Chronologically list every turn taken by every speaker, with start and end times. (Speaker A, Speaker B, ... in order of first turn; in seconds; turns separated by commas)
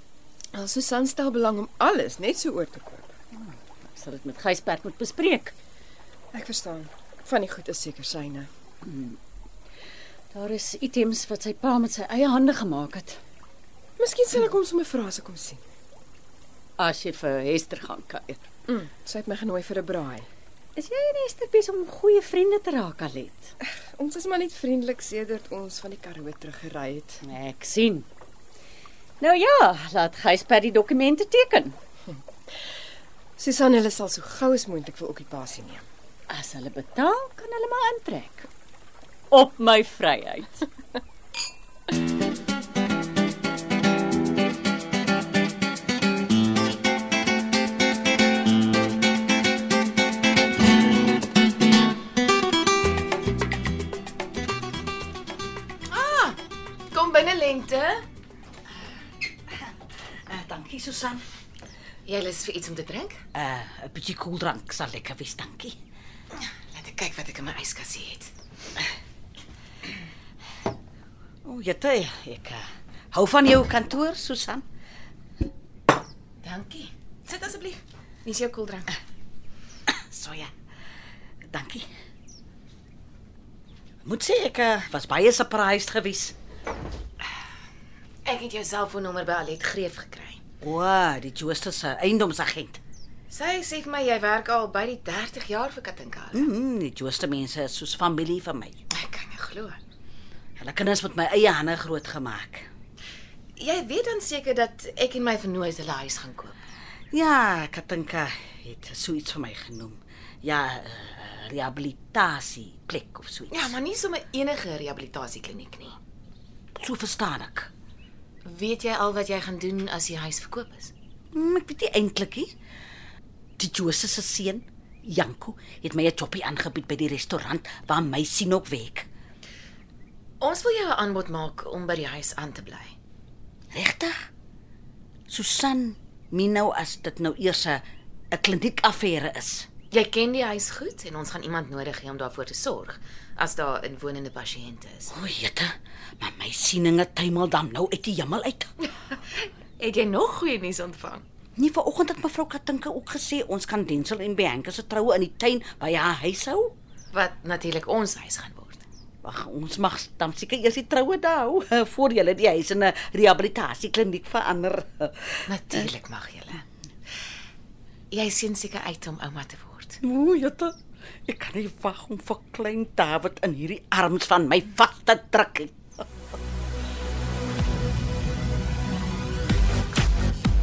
Speaker A: 0.5-3.1, Speaker B: 3.4-5.5, Speaker A: 6.3-8.5, Speaker B: 8.8-9.2, Speaker B: 10.3-13.2, Speaker A: 14.0-15.6, Speaker B: 16.8-18.4, Speaker A: 18.7-20.3, Speaker B: 20.8-23.5, Speaker A: 23.6-27.2, Speaker B: 27.2-28.1, Speaker B: 29.2-31.8, Speaker A: 33.4-35.9, Speaker B: 36.3-38.5, Speaker B: 39.3-40.7, Speaker C: 55.9-56.4, Speaker C: 56.9-58.0, Speaker D: 60.3-61.2, Speaker C: 62.1-63.2, Speaker D: 63.3-65.8, Speaker C: 66.4-68.3, Speaker D: 71.5-74.6, Speaker C: 76.4-79.0, Speaker C: 80.1-80.5, Speaker D: 81.5-81.9, Speaker D: 84.0-86.3, Speaker C: 88.2-90.4, Speaker D: 90.6-92.8, Speaker C: 93.3-96.5, Speaker D: 96.3-98.8, Speaker C: 98.9-99.8, Speaker D: 100.6-102.7, Speaker C: 103.6-106.5, Speaker D: 107.1-113.8, Speaker C: 113.5-116.0, Speaker D: 116.8-117.7, Speaker C: 118.5-120.9, Speaker D: 121.3-122.5, Speaker D: 123.6-129.1, Speaker C: 130.4-132.9, Speaker D: 133.7-134.1, Speaker D: 135.3-139.7, Speaker C: 139.9-145.1, Speaker D: 145.1-148.7, Speaker C: 149.3-151.2, Speaker D: 151.6-156.7, Speaker C: 157.1-158.8, Speaker D: 159.2-165.8, Speaker C: 165.5-166.6, Speaker C: 168.1-170.0, Speaker D: 170.0-176.0